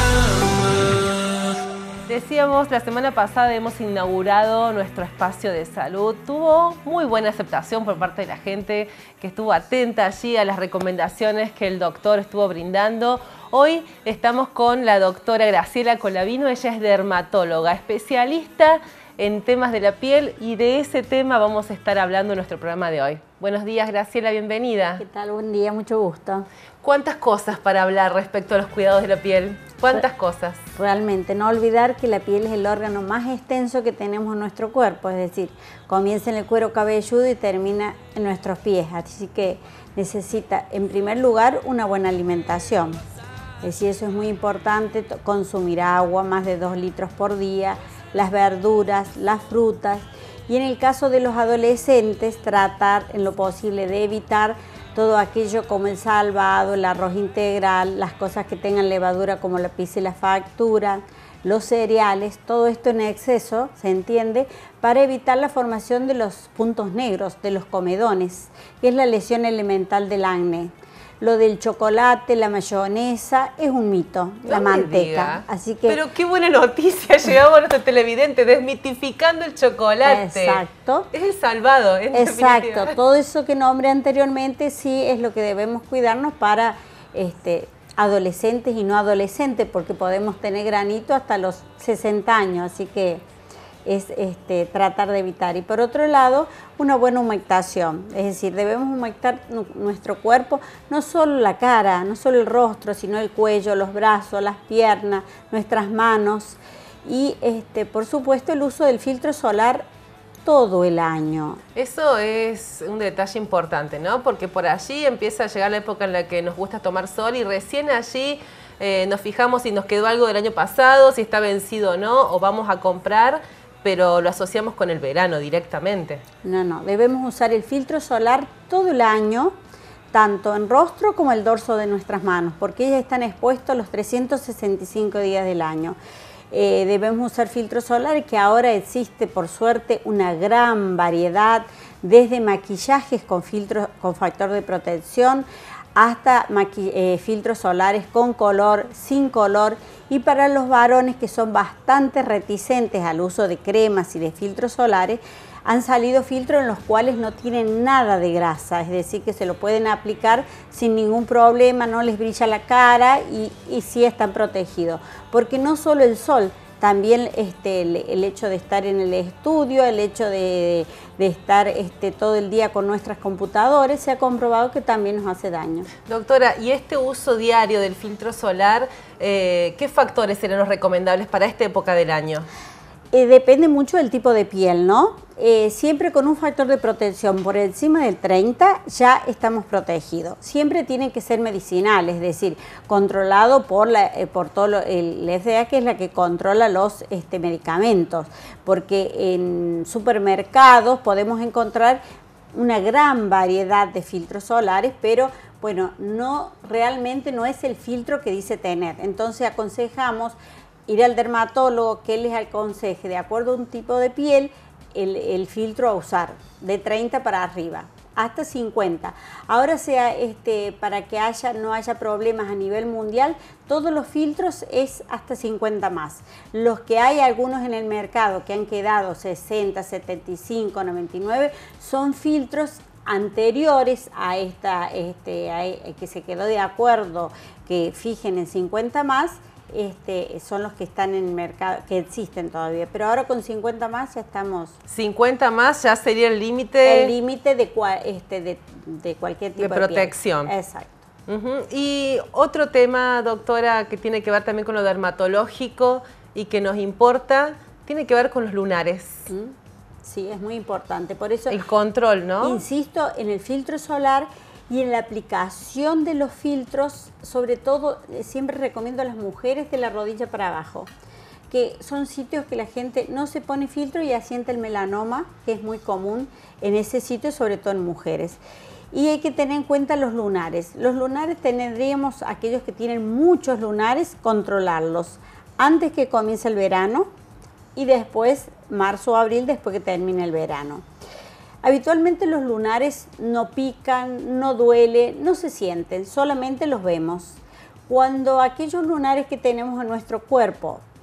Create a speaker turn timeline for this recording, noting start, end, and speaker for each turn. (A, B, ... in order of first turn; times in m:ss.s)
0:02.1-0:25.0 A
0:25.0-0:26.4 B
0:26.8-0:30.6 A
0:30.8-0:43.0 B
0:43.6-1:16.0 B
1:14.4-1:20.6 A
1:20.0-1:21.1 B
1:21.1-1:23.0 A
1:22.1-1:33.2 B
1:33.8-1:49.9 B
1:50.4-1:51.6 B
1:51.7-2:06.2 A
2:06.4-2:09.5 B
2:10.1-2:16.0 B
2:16.5-2:55.9 B
2:56.0-3:02.4 A
3:03.1-3:22.0 B
3:22.5-4:04.7 B
4:04.9-4:07.1 A
4:06.8-4:11.0 B
4:09.6-4:10.5 A
4:11.3-4:19.3 A
4:19.3-4:21.6 B
4:21.5-4:22.6 A
4:22.4-4:30.9 B
4:31.5-4:38.4 B
4:38.9-4:47.1 B
4:47.7-4:50.8 B
4:51.6-5:00.8 B